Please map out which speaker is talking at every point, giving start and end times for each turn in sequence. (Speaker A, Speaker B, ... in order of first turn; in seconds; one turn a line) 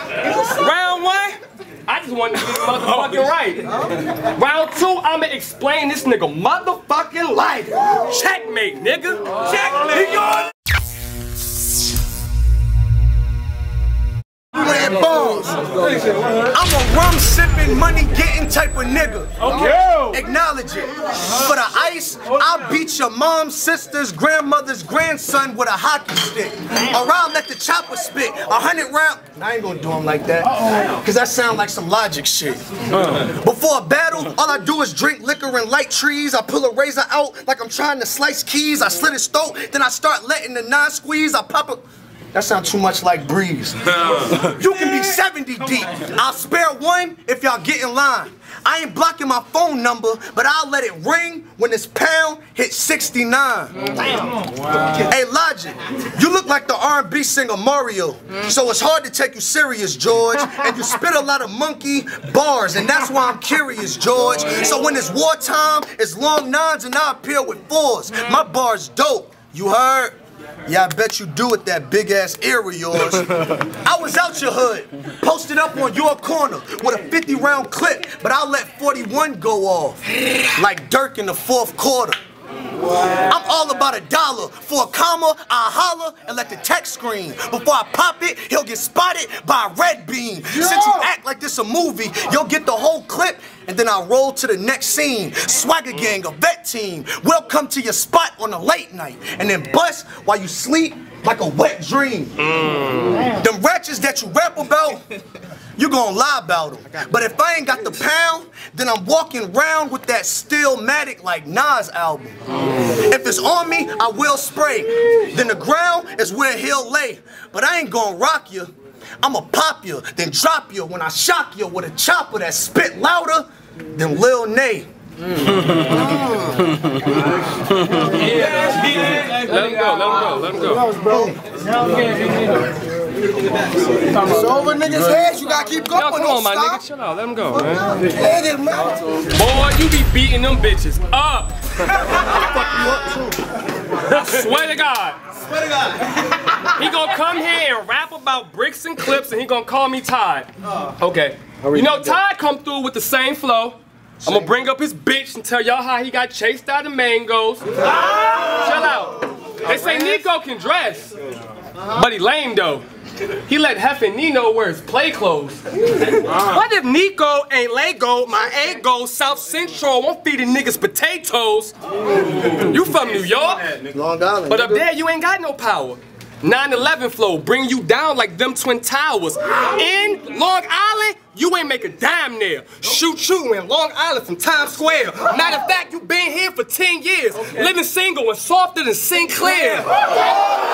Speaker A: 0.2-3.7
Speaker A: 4.3-10.1
Speaker B: 14.5-15.6
Speaker B: 16.3-53.7
Speaker B: 54.9-80.0
Speaker B: 80.5-82.2
Speaker B: 83.2-102.4
Speaker A: 102.5-103.2
Speaker B: 103.2-105.0
Speaker B: 105.8-124.9
Speaker A: 128.2-131.0
Speaker B: 131.0-131.3
Speaker B: 134.1-136.8
Speaker A: 135.9-138.1
Speaker B: 138.1-138.9
Speaker A: 139.3-141.6
Speaker B: 142.0-143.5
Speaker A: 144.1-145.2
Speaker A: 146.7-161.1
Speaker A: 161.9-162.8
Speaker A: 163.4-171.7
Speaker A: 172.4-173.8
Speaker B: 173.9-174.9
Speaker A: 174.5-189.8